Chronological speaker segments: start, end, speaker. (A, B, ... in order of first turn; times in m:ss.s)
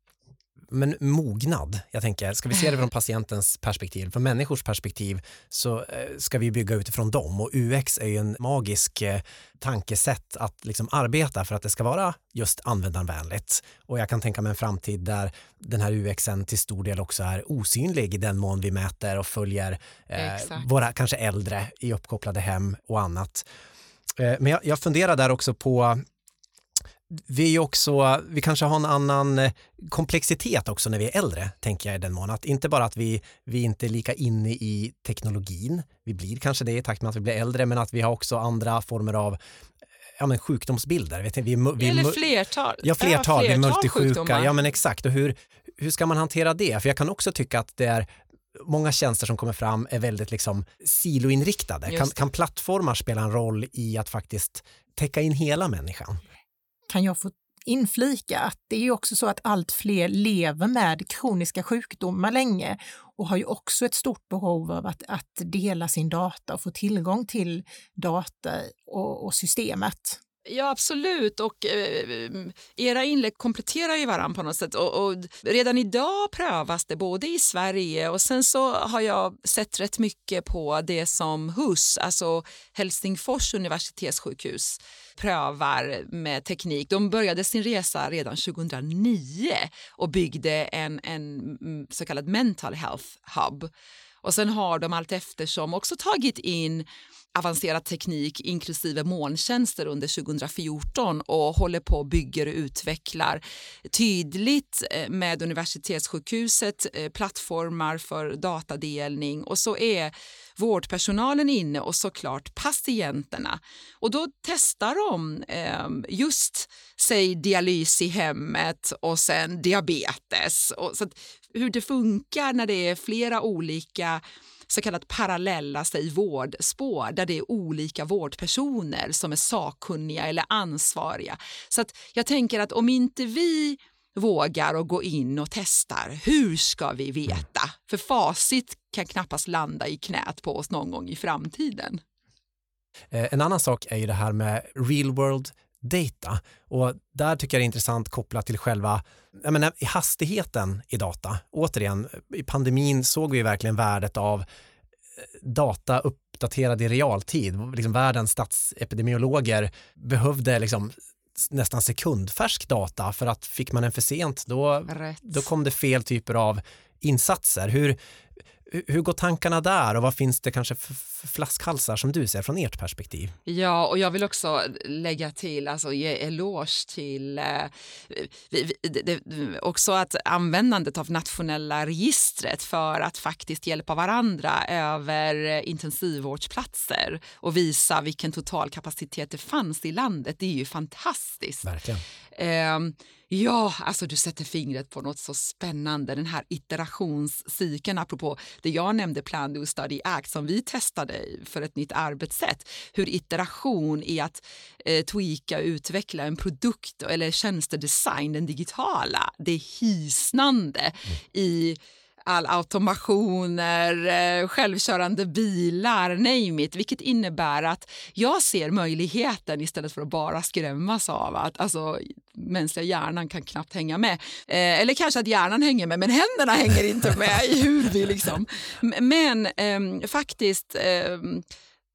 0:00.7-0:23.5 A
0:20.2-0:20.7 B
0:24.2-0:26.0 A
0:27.1-0:39.4 A
0:40.2-0:42.2 A
0:41.8-0:44.5 B
0:42.8-0:56.2 A
0:51.9-0:52.1 B
0:56.9-1:10.2 C
1:10.5-1:33.7 B
1:34.2-2:22.0 B
2:23.1-2:34.4 A
2:35.2-2:48.0 A
2:44.9-2:45.5 B
2:48.7-2:53.3 A
2:53.5-3:11.7 B
3:11.6-3:12.0 A
3:12.3-3:51.4 B